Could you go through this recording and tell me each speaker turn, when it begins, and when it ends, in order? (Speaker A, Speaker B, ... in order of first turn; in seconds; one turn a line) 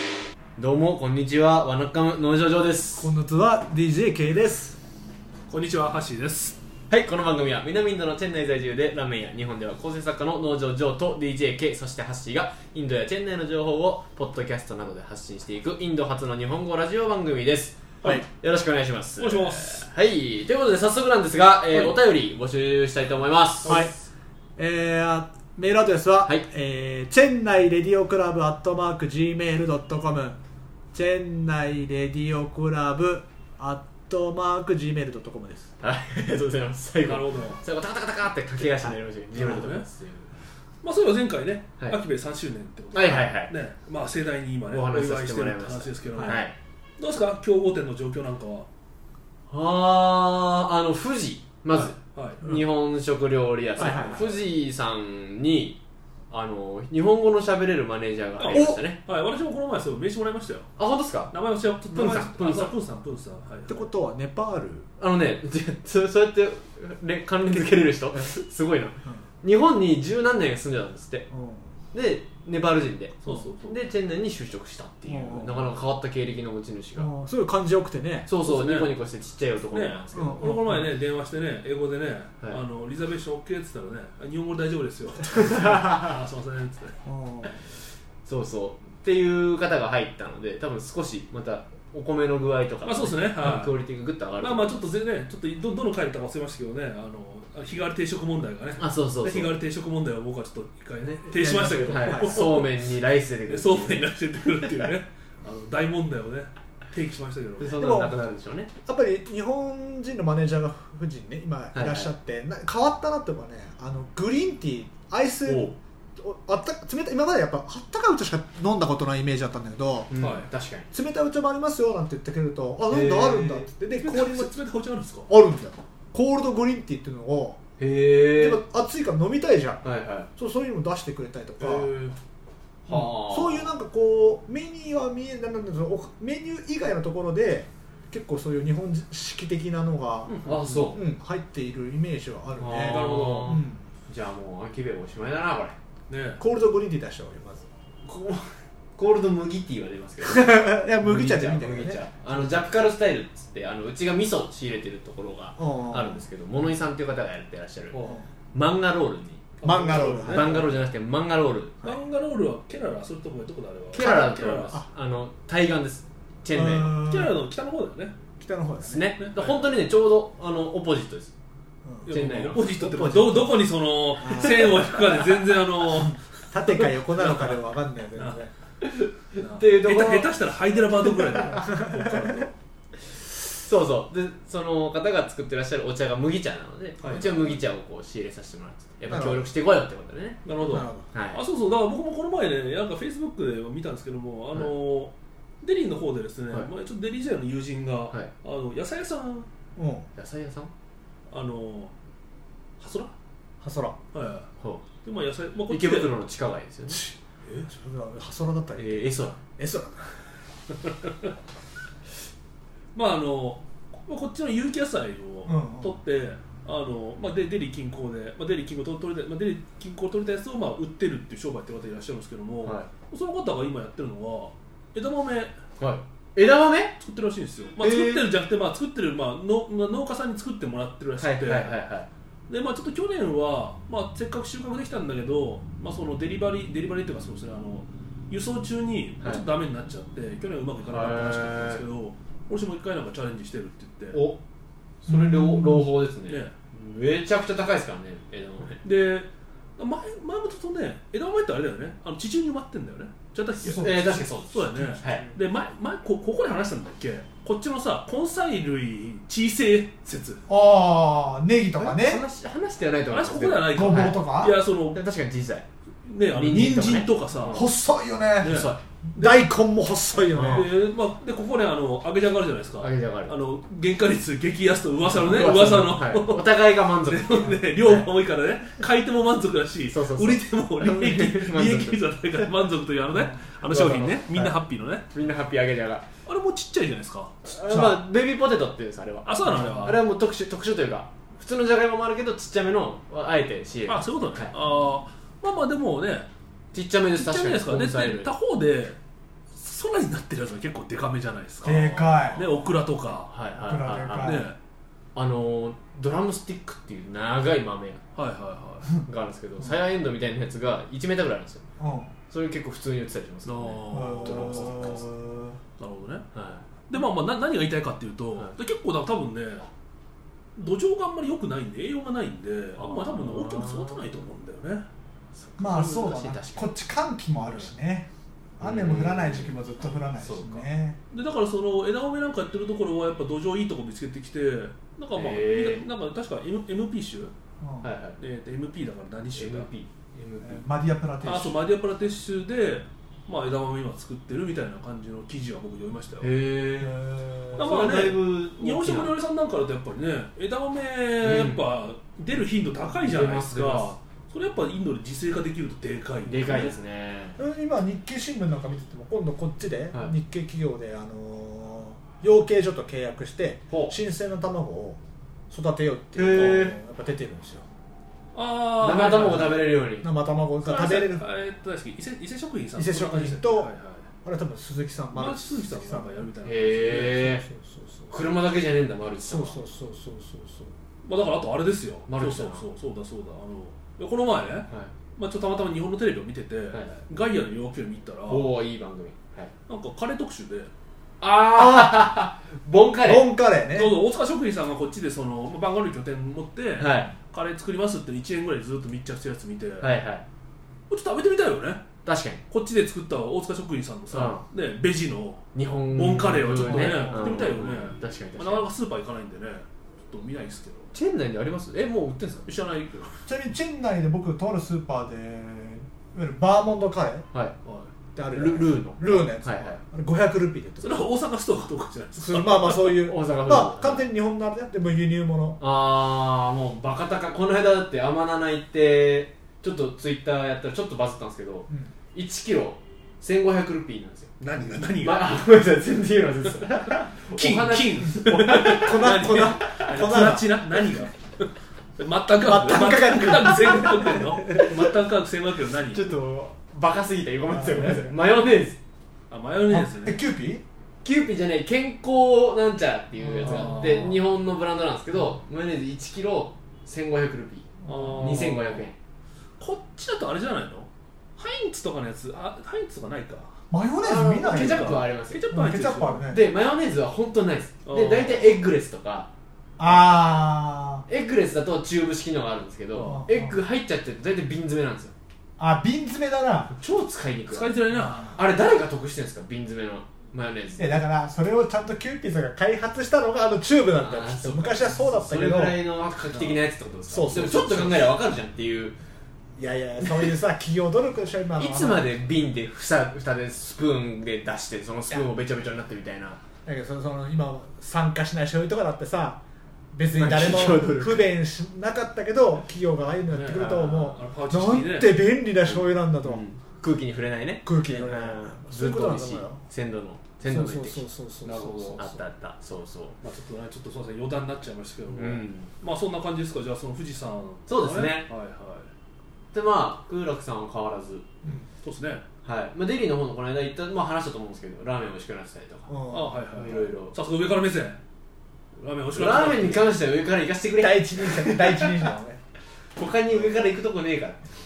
Speaker A: 0.6-3.1
Speaker B: 3.0-4.8
Speaker C: 5.5-6.6
Speaker A: 6.9-23.8
Speaker C: 19.2-19.9
Speaker C: 23.6-24.0
Speaker B: 23.7-23.9
Speaker B: 24.6-30.4
Speaker B: 30.9-35.7
Speaker A: 35.8-40.3
Speaker C: 37.0-37.6
Speaker C: 39.3-39.9
Speaker C: 40.8-46.5
Speaker A: 42.9-43.5
Speaker A: 44.7-46.5
Speaker B: 46.1-46.4
Speaker C: 47.0-48.7
Speaker A: 49.5-55.8
Speaker C: 51.7-52.6
Speaker B: 53.8-54.4
Speaker C: 53.8-54.4
Speaker A: 56.3-59.0
Speaker C: 58.4-60.7
Speaker B: 58.5-58.8
Speaker A: 60.8-61.3
Speaker C: 61.3-63.9
Speaker A: 61.9-62.7
Speaker B: 63.7-64.9
Speaker A: 65.0-71.3
Speaker B: 71.3-71.7
Speaker A: 71.9-77.1
Speaker C: 73.2-73.8
Speaker B: 75.1-75.8
Speaker B: 77.0-78.3
Speaker A: 78.3-80.5
Speaker C: 78.4-79.0
Speaker C: 79.7-87.0
Speaker B: 80.1-80.9
Speaker B: 87.0-87.6
Speaker A: 88.2-94.9
Speaker C: 92.8-93.7
Speaker C: 94.4-102.7
Speaker A: 98.8-99.5
Speaker B: 101.3-102.6
Speaker A: 101.8-104.1
Speaker C: 103.5-107.9
Speaker A: 107.6-108.7
Speaker B: 107.8-108.3
Speaker B: 108.9-120.1
Speaker A: 111.7-112.1
Speaker A: 115.5-115.8
Speaker A: 120.1-120.9
Speaker C: 120.2-120.5
Speaker B: 120.9-124.5
Speaker A: 122.9-123.7
Speaker C: 123.8-125.3
Speaker B: 125.3-127.6
Speaker A: 127.8-128.6
Speaker B: 128.3-129.8
Speaker A: 129.8-130.3
Speaker B: 130.4-131.9
Speaker C: 131.6-132.1
Speaker A: 132.9-133.7
Speaker B: 132.9-140.4
Speaker C: 140.3-140.9
Speaker A: 140.4-141.0
Speaker B: 140.9-143.8
Speaker A: 142.6-145.8
Speaker C: 142.7-143.6
Speaker C: 146.1-146.4
Speaker B: 146.4-147.6
Speaker A: 148.1-161.8
Speaker B: 150.2-152.1
Speaker B: 155.6-156.2
Speaker C: 157.9-158.2
Speaker C: 159.6-160.6
Speaker B: 159.6-160.8
Speaker C: 161.8-164.8
Speaker A: 163.9-167.0
Speaker B: 164.0-164.9
Speaker B: 166.5-167.4
Speaker C: 167.0-168.2
Speaker B: 168.4-169.1
Speaker A: 168.8-171.3
Speaker C: 169.2-169.6
Speaker B: 171.8-172.1
Speaker C: 172.1-178.4
Speaker A: 172.1-172.7
Speaker B: 172.8-173.7
Speaker B: 174.2-175.2
Speaker B: 176.5-178.5
Speaker A: 178.8-180.4
Speaker C: 179.4-182.5
Speaker B: 181.4-182.4
Speaker A: 183.5-190.5
Speaker C: 187.0-187.6
Speaker B: 189.1-189.5
Speaker C: 190.4-199.5
Speaker B: 190.6-191.1
Speaker A: 191.1-191.4
Speaker B: 199.8-200.1
Speaker A: 200.2-200.7
Speaker C: 201.3-201.9
Speaker C: 202.8-203.1
Speaker B: 203.6-204.0
Speaker C: 204.1-204.5
Speaker A: 204.6-204.8
Speaker C: 205.0-206.2
Speaker A: 205.7-207.0
Speaker B: 206.9-207.2
Speaker B: 207.7-210.2
Speaker A: 208.8-209.4
Speaker C: 212.9-225.6
Speaker B: 215.5-216.0
Speaker A: 225.8-227.0
Speaker C: 227.0-231.8
Speaker A: 227.8-228.3
Speaker A: 231.2-232.1
Speaker C: 232.5-244.2
Speaker A: 240.9-241.8
Speaker A: 244.1-244.4
Speaker A: 245.0-248.8
Speaker B: 245.1-245.9
Speaker C: 246.3-246.5
Speaker C: 248.8-260.4
Speaker B: 253.6-255.4
Speaker A: 253.8-255.3
Speaker B: 260.5-262.2
Speaker A: 261.8-264.3
Speaker C: 263.1-265.0
Speaker B: 263.7-264.6
Speaker A: 264.9-265.7
Speaker C: 266.1-267.7
Speaker A: 266.3-267.7
Speaker B: 267.5-270.7
Speaker C: 268.4-269.4
Speaker A: 268.4-268.8
Speaker A: 270.3-270.7
Speaker C: 270.5-285.1
Speaker A: 272.8-273.4
Speaker A: 275.1-278.1
Speaker A: 279.9-282.0
Speaker A: 283.6-284.5
Speaker A: 285.1-286.1
Speaker C: 286.3-287.4
Speaker A: 287.4-294.5
Speaker B: 287.7-288.0
Speaker C: 289.2-290.0
Speaker B: 289.4-290.0
Speaker C: 293.9-296.3
Speaker A: 296.7-298.3
Speaker C: 297.2-299.0
Speaker C: 299.5-303.3
Speaker B: 301.6-302.4
Speaker A: 303.3-304.5
Speaker B: 303.6-304.5
Speaker C: 304.2-304.6
Speaker A: 305.1-308.0
Speaker C: 308.2-308.9
Speaker A: 309.0-311.6
Speaker B: 311.8-312.1
Speaker A: 312.3-315.1
Speaker C: 313.4-315.0
Speaker B: 313.9-315.6
Speaker C: 315.8-316.3
Speaker A: 316.3-316.6
Speaker C: 316.9-319.7
Speaker C: 320.6-324.9
Speaker A: 322.8-324.1
Speaker A: 325.4-326.7
Speaker B: 325.6-331.0
Speaker C: 327.4-327.7
Speaker A: 328.6-329.5
Speaker C: 330.2-337.3
Speaker A: 335.1-335.9
Speaker B: 337.6-337.9
Speaker A: 337.8-338.2
Speaker C: 338.2-339.7
Speaker A: 339.4-340.6
Speaker B: 340.4-341.6
Speaker C: 341.2-346.3
Speaker A: 346.2-349.2
Speaker B: 346.8-347.9
Speaker C: 347.6-356.8
Speaker A: 351.2-351.7
Speaker A: 353.0-353.9
Speaker A: 356.3-357.4
Speaker B: 357.4-367.7
Speaker A: 363.7-363.9
Speaker A: 366.1-366.8
Speaker C: 368.3-369.7
Speaker A: 368.8-370.1
Speaker B: 370.0-371.3
Speaker C: 370.6-374.1
Speaker B: 372.8-373.7
Speaker B: 374.2-376.3
Speaker C: 375.1-377.4
Speaker A: 376.4-377.4
Speaker B: 377.1-378.1
Speaker A: 378.1-379.6
Speaker B: 379.3-380.7
Speaker C: 381.0-388.5
Speaker A: 382.1-382.6
Speaker A: 384.7-384.9
Speaker A: 388.3-389.5
Speaker C: 389.7-390.7
Speaker A: 391.2-393.3
Speaker B: 391.5-392.1
Speaker B: 393.0-394.0
Speaker C: 393.7-400.0
Speaker A: 396.8-397.1
Speaker A: 399.8-400.2
Speaker C: 400.9-401.9
Speaker A: 402.1-402.4
Speaker C: 402.5-410.9
Speaker A: 404.1-404.4
Speaker A: 405.5-408.7
Speaker B: 406.7-407.5
Speaker A: 410.9-412.5
Speaker C: 412.4-413.3
Speaker B: 413.3-417.3
Speaker C: 417.6-417.9
Speaker B: 418.1-421.1
Speaker A: 418.3-419.8
Speaker C: 420.8-422.9
Speaker B: 422.2-425.6
Speaker A: 422.9-424.1
Speaker A: 425.6-434.3
Speaker C: 434.4-435.4
Speaker A: 435.0-440.2
Speaker C: 437.3-446.1
Speaker B: 438.6-440.6
Speaker B: 442.4-444.6
Speaker A: 445.9-448.8
Speaker B: 447.5-448.1
Speaker C: 449.3-450.2
Speaker B: 449.7-450.6
Speaker A: 451.0-458.9
Speaker C: 453.4-454.2
Speaker B: 453.4-453.9
Speaker C: 457.9-458.9
Speaker B: 457.9-458.1
Speaker C: 459.6-463.6
Speaker B: 463.7-466.5
Speaker A: 464.0-465.4
Speaker C: 464.5-466.3
Speaker A: 466.3-469.3
Speaker C: 467.9-468.6
Speaker B: 469.8-471.1
Speaker A: 471.1-475.1
Speaker C: 472.9-473.3
Speaker B: 473.0-473.6
Speaker B: 475.6-476.7
Speaker A: 476.8-477.8
Speaker C: 477.5-478.4
Speaker B: 477.9-478.4
Speaker A: 478.3-480.9
Speaker B: 480.8-485.8
Speaker A: 484.0-489.0
Speaker B: 487.1-488.1
Speaker B: 489.6-492.1
Speaker A: 491.6-496.4
Speaker B: 496.6-499.4
Speaker B: 499.9-506.4
Speaker A: 500.1-501.3
Speaker C: 503.3-505.3
Speaker A: 505.7-513.2
Speaker B: 507.6-509.6
Speaker B: 510.4-512.2
Speaker C: 511.4-512.1
Speaker C: 513.2-518.9
Speaker A: 515.1-515.7
Speaker A: 517.7-518.3
Speaker A: 519.5-521.3
Speaker C: 521.8-522.2
Speaker A: 522.4-527.1
Speaker B: 525.9-526.5
Speaker C: 526.1-528.0
Speaker C: 528.8-529.9
Speaker A: 529.1-532.1
Speaker B: 530.8-532.4
Speaker A: 533.0-534.5